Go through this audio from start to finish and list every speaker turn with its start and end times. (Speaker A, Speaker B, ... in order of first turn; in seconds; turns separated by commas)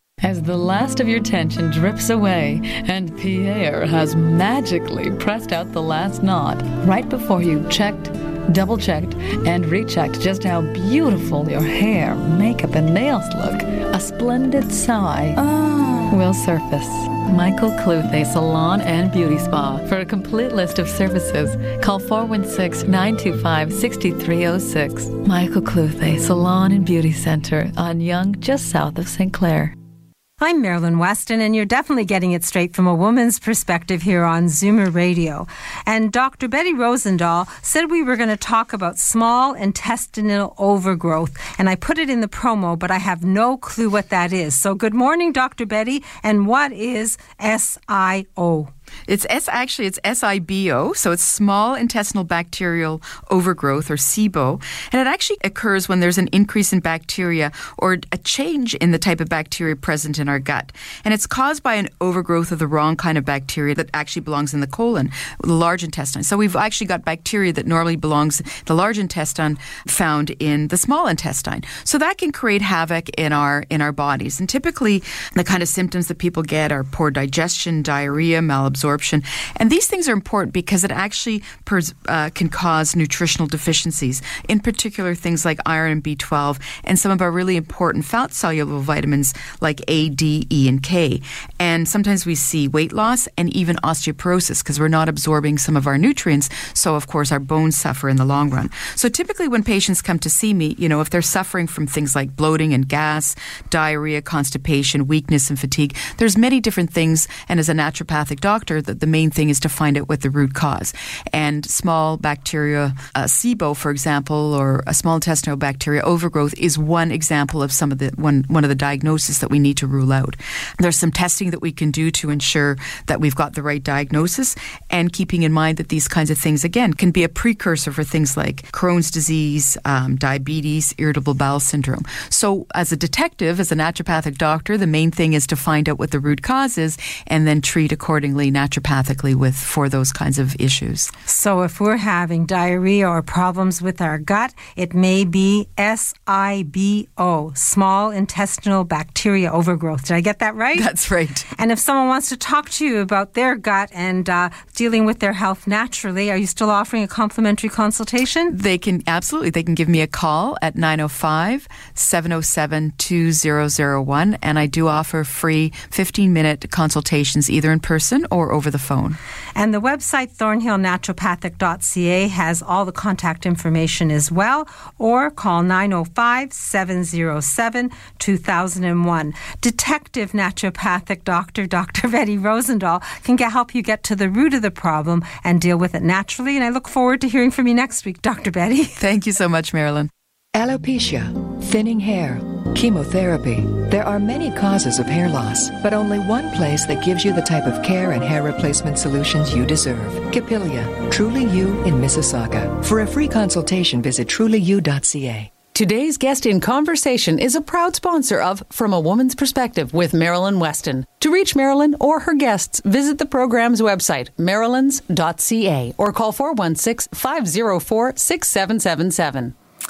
Speaker A: 0.2-29.8, Speaker B: 30.4-48.7, Speaker C: 49.1-141.1, Speaker B: 141.3-150.9, Speaker C: 150.7-151.5, Speaker B: 151.6-158.5, Speaker C: 158.5-169.2, Speaker B: 169.6-188.9, Speaker C: 189.0-190.1, Speaker D: 190.5-205.5, Speaker E: 205.7-219.5